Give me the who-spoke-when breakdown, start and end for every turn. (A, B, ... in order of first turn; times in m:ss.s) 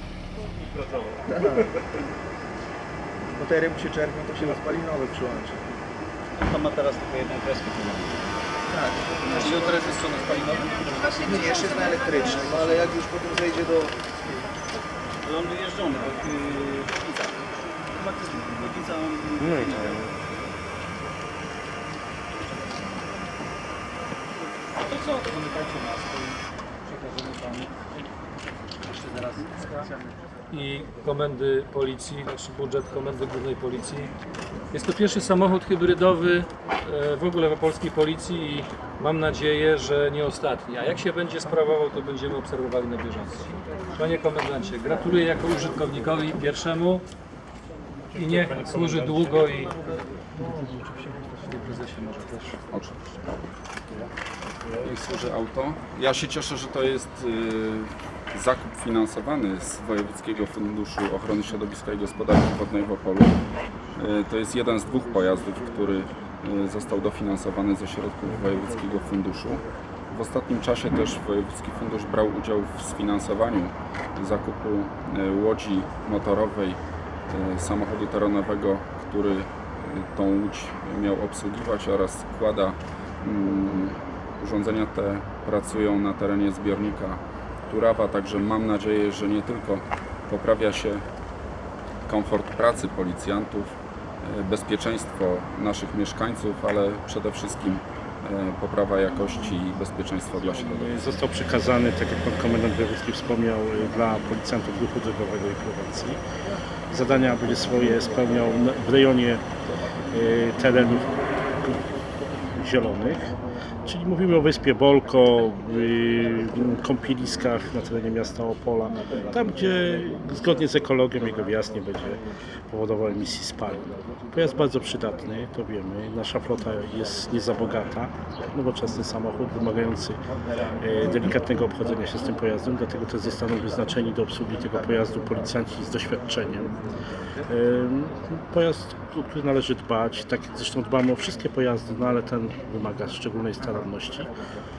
0:01.2-0:01.7 A
0:03.3-0:05.6 A
0:06.4-0:08.2 B
0:08.7-0:09.6 A
0:09.2-0:11.2 B
0:11.1-0:13.9 A
0:12.3-0:12.6 B
0:15.2-0:20.0 B
0:19.4-0:20.1 C
0:24.8-0:27.7 D
0:28.8-0:29.9 D
0:30.5-0:34.1 D
0:34.7-0:47.0 D
0:48.1-0:49.8 D
0:51.2-0:52.6 D
0:52.7-0:53.1 E
0:54.8-1:03.4 E
1:03.9-1:31.0 E
1:32.0-1:41.2 E
1:40.6-1:46.2 C
1:46.9-1:49.4 C
1:50.1-1:51.9 C
1:52.5-1:53.3 C
1:53.8-2:10.2 C
2:10.8-2:16.7 C
2:17.5-2:24.3 C